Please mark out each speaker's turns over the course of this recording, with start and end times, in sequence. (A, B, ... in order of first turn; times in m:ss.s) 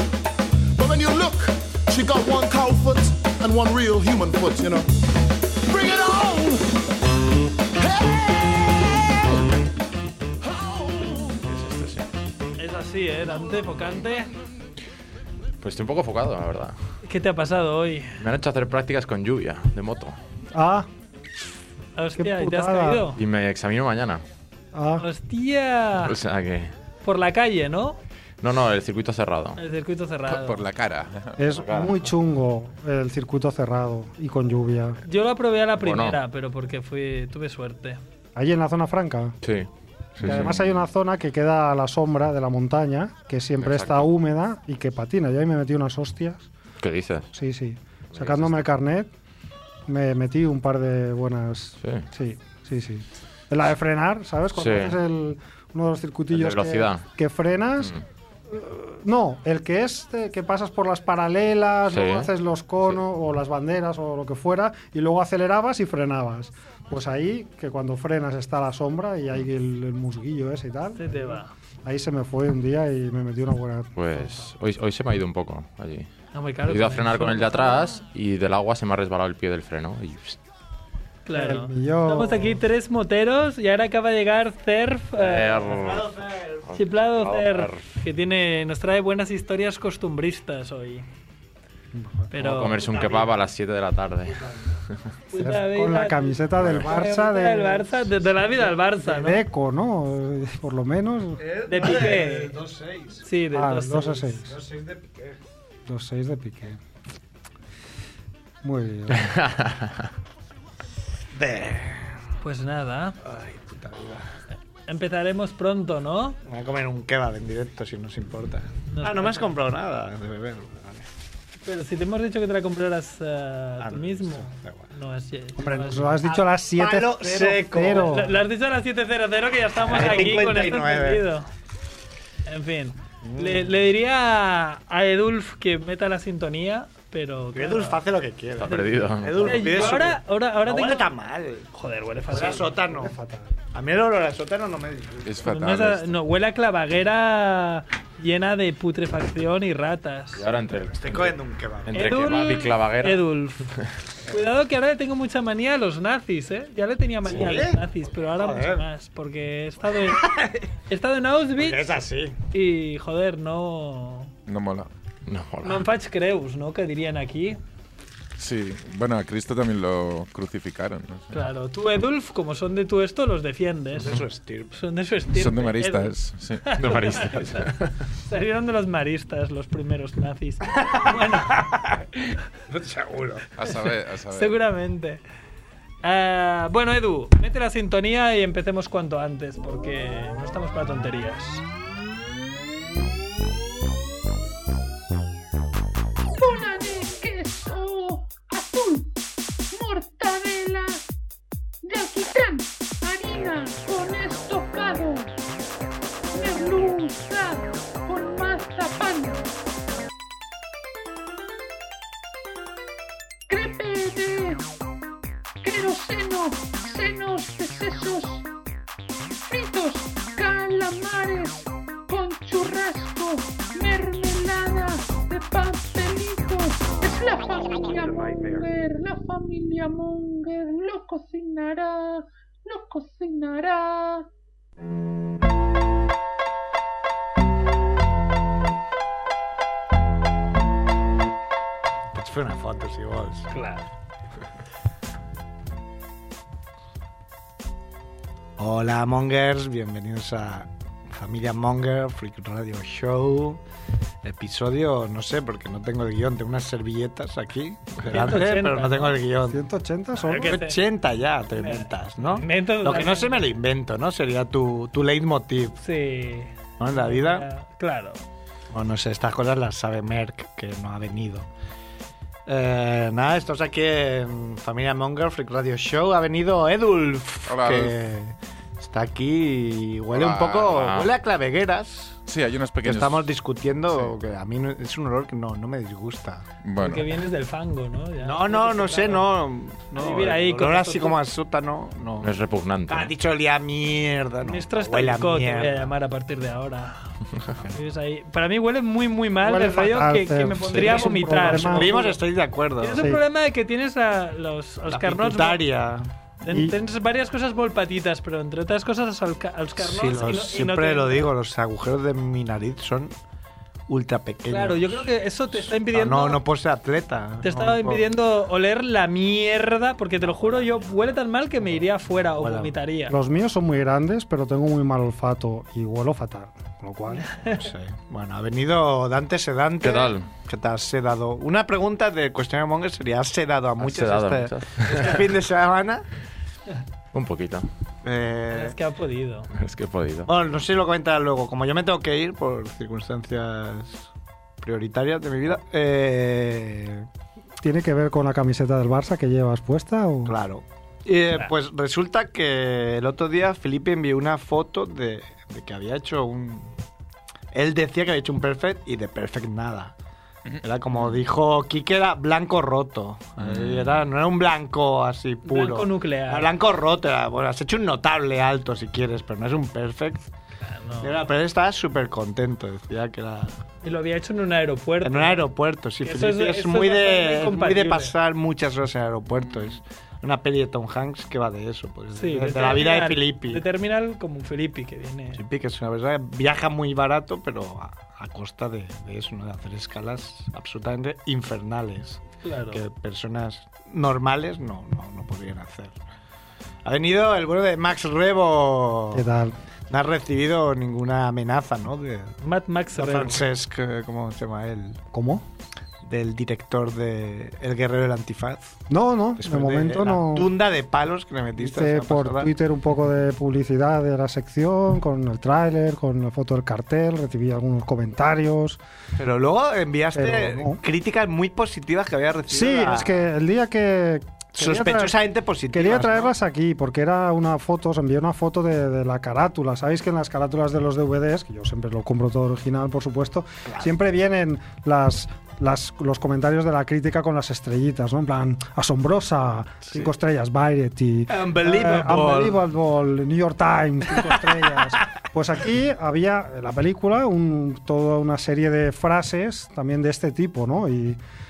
0:00.8-0:04.9 A
0:05.7-0:06.8 A
0:07.8-0:09.4 A
0:10.4-0:11.6 A
0:12.6-0:14.3 B
0:15.6-0:16.8 C
0:17.0-0:18.2 B
0:18.2-0:20.2 C
0:20.5-0:20.9 D
0:22.0-0:23.2 B
0:22.2-0:23.1 D
0:23.2-0:24.2 C
0:24.7-0:25.0 D
0:25.0-0:26.1 B
0:26.0-0:26.7 C
0:27.0-0:28.0 B
0:28.4-0:29.6 C
0:29.6-0:30.6 B
0:30.3-0:31.4 E
0:31.4-0:35.0 D
0:31.6-0:32.0 C
0:35.0-0:38.0 B
0:35.8-0:36.2 C
0:38.4-0:39.4 D
0:39.4-0:39.7 C
0:40.2-0:40.7 E
0:40.2-0:40.5 C
0:40.2-0:46.5 D
0:43.6-0:44.0 C
0:46.8-0:47.3 C
0:47.3-0:49.1 D
0:48.1-0:48.6 C
0:49.9-0:58.0 D
0:54.6-0:55.0 C
0:56.3-0:57.0 C
0:58.5-1:11.3 D
1:01.9-1:02.3 C
1:11.0-1:11.5 B
1:11.8-1:14.5 D
1:14.0-1:16.1 C
1:16.3-1:17.9 B
1:16.7-1:20.4 C
1:21.3-1:25.5 B
1:21.3-1:22.6 D
1:25.2-1:26.1 C
1:25.5-1:26.7 F
1:26.7-1:27.8 C
1:26.8-1:31.1 B
1:32.3-1:32.8 B
1:32.4-1:34.4 C
1:32.8-1:33.4 F
1:35.3-1:39.4 B
1:35.3-1:37.9 D
1:39.0-1:41.4 D
1:41.4-1:43.2 F
1:41.7-1:42.5 B
1:43.2-1:44.3 B
1:43.5-1:44.6 D
1:44.4-1:45.4 F
1:45.9-1:46.8 D
1:48.6-1:49.3 D
1:49.2-1:49.9 C
1:51.3-1:52.1 F
1:52.4-1:53.2 B
1:53.2-1:54.2 F
1:54.9-1:56.4 B
1:56.5-2:01.0 F
1:58.9-1:59.4 B
2:01.6-2:06.2 B
2:03.8-2:04.8 F
2:05.6-2:08.3 D
2:06.3-2:08.3 F
2:07.9-2:11.5 B
2:09.9-2:11.2 F
2:12.5-2:18.0 B
2:13.2-2:13.7 F
2:17.6-2:21.7 F
2:18.6-2:19.9 C
2:18.6-2:21.1 B
2:21.7-2:22.7 B
2:22.3-2:23.1 F
2:23.0-2:23.5 D
2:23.7-2:25.5 F
2:25.2-2:26.2 E
2:25.4-2:30.4 B
2:30.4-2:31.3 C
2:30.9-2:32.4 F
2:31.9-2:33.2 C
2:31.9-2:33.7 B
2:34.3-2:40.3 B
2:37.2-2:38.8 F
2:40.1-2:40.6 F
2:40.9-2:42.0 B
2:41.6-2:42.4 F
2:42.5-2:44.3 B
2:44.5-2:44.9 E
2:45.3-2:45.9 C
2:45.6-2:47.6 B
2:48.4-2:51.3 E
2:51.3-2:54.2 B
2:54.0-2:54.7 F
2:54.7-2:57.7 B
2:55.3-2:56.6 E
2:56.8-2:57.9 C
2:58.3-3:01.6 B
3:00.8-3:03.4 F
3:03.6-3:04.6 E
3:04.3-3:05.2 B
3:06.0-3:11.6 B
3:16.4-3:19.1 G
3:19.7-3:21.0 G
3:21.8-3:25.3 G
3:26.3-3:29.5 G
3:33.5-3:34.6 G
3:35.6-3:38.5 G
3:39.5-3:54.3 G
4:02.1-4:03.5 F
4:03.5-4:03.9 B
4:08.6-4:13.6 F
4:14.2-4:19.6 F
4:18.1-4:19.2 B
4:19.5-4:20.6 D
4:20.2-4:20.8 B
4:20.4-4:25.8 F
4:21.6-4:23.4 B
4:25.8-4:28.2 B
4:26.8-4:27.5 F
4:28.7-4:31.5 F
4:32.5-4:42.2 F
4:37.5-4:38.0 E
4:40.2-4:41.1 C
4:42.3-4:43.3 E
4:42.8-4:46.5 F
4:46.6-4:47.1 E
4:46.8-4:49.3 B
4:48.2-4:52.3 F
4:50.0-4:51.2 B
4:52.2-4:53.1 C
4:52.9-4:55.9 F
4:54.4-4:57.0 B
4:57.7-5:02.2 B
4:59.4-5:02.0 D
5:00.7-5:03.1 F
5:02.8-5:05.6 B
5:03.0-5:03.2 D
5:04.9-5:06.1 F
5:06.4-5:11.3 B
5:06.5-5:06.7 D
5:09.8-5:13.1 F
5:13.9-5:18.0 F
5:14.5-5:16.4 B
5:17.4-5:23.1 B
5:20.2-5:20.8 F
5:22.2-5:22.8 F
5:23.1-5:27.3 D
5:27.2-5:27.6 B
5:27.5-5:36.0 F
5:29.8-5:30.3 C
5:33.8-5:35.3 C
5:37.1-5:37.7 C
5:38.0-5:38.8 F
5:38.5-5:39.5 B
5:39.5-5:40.3 C
5:40.3-5:44.1 F
5:44.6-5:47.1 F
5:47.6-5:50.4 D
5:50.2-5:56.8 F
5:57.5-6:00.0 F
6:00.6-6:10.3 F
6:03.4-6:04.1 C
6:05.5-6:06.5 B
6:10.6-6:11.2 B
6:11.0-6:13.6 F
6:13.8-6:15.5 B
6:15.0-6:23.6 F
6:16.0-6:18.2 B
6:22.2-6:25.4 B
6:25.3-6:36.0 F
6:32.4-6:32.8 B
6:36.8-6:39.3 F
6:39.1-6:39.6 D
6:39.9-6:42.3 F
6:42.4-6:43.4 B
6:43.0-6:45.0 F
6:45.1-6:45.5 D
6:46.0-6:48.8 F
6:48.9-6:50.5 D
6:49.4-6:52.5 F
6:51.6-6:58.8 D
6:59.2-7:03.2 F
7:00.2-7:00.8 D
7:02.5-7:05.2 D
7:04.6-7:06.3 F
7:05.7-7:31.2 D
7:13.7-7:13.9 F
7:21.3-7:22.6 F
7:24.2-7:24.4 F